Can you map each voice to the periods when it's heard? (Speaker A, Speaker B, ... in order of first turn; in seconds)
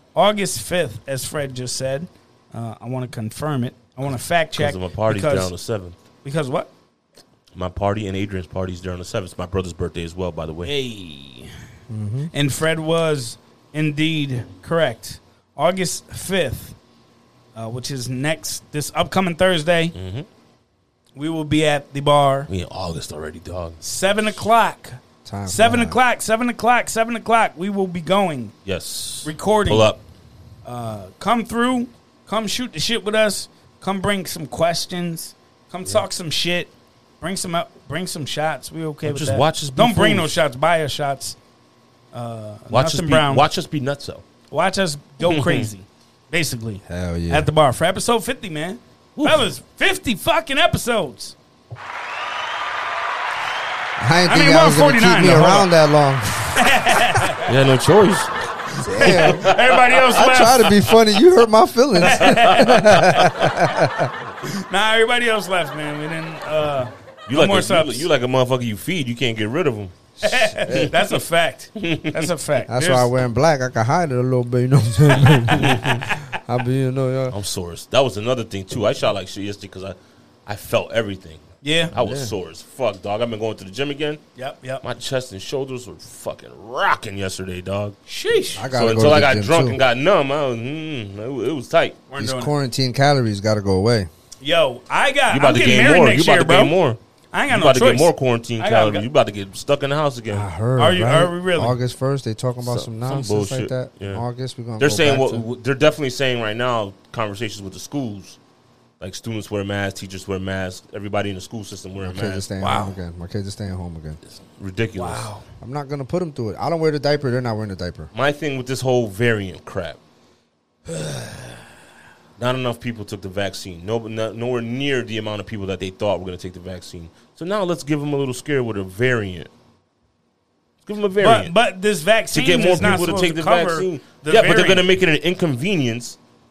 Speaker A: 0.1-5.5, 6.2-6.7, 10.7-11.5, 12.3-16.8, 17.6-19.9, 21.1-22.5, 23.8-28.5, 29.2-29.9, 30.6-36.7, 37.2-41.4, 42.1-43.5, 44.5-51.4, 54.3-55.7, 56.5-57.5, 58.8-60.8, 62.0-63.6, 64.4-68.1, 70.2-73.1, 81.6-81.9, 84.4-84.8, 88.1-88.7, 92.1-92.5, 94.4-96.7, 97.3-99.1, 100.8-101.8, 112.6-113.0, 115.0-115.4, 131.2-134.8
Speaker B: 4.5-6.0, 7.5-10.7, 19.9-20.3, 22.5-23.8, 28.7-30.0, 39.0-40.4, 42.7-44.2, 45.2-45.7, 49.2-49.5, 57.4-58.4, 59.0-59.8, 62.2-62.6, 67.3-69.9, 70.7-71.0, 71.8-72.3, 75.6-76.1, 77.3-84.2, 84.8-88.0, 88.7-92.0, 95.3-97.0, 97.5-100.5, 102.6-104.2, 104.8-108.4, 109.0-112.4, 114.6-115.3, 118.1-120.0, 120.9-121.4, 122.4-129.5, 130.8-131.5, 132.3-136.2
Speaker C: 11.9-12.3, 25.2-26.0, 46.9-47.5, 54.0-57.0, 58.8-59.5, 60.0-64.1, 70.3-70.9, 72.7-77.4, 82.0-82.3, 88.6-89.8, 92.2-94.1, 100.3-105.4, 112.0-114.2, 115.6-118.1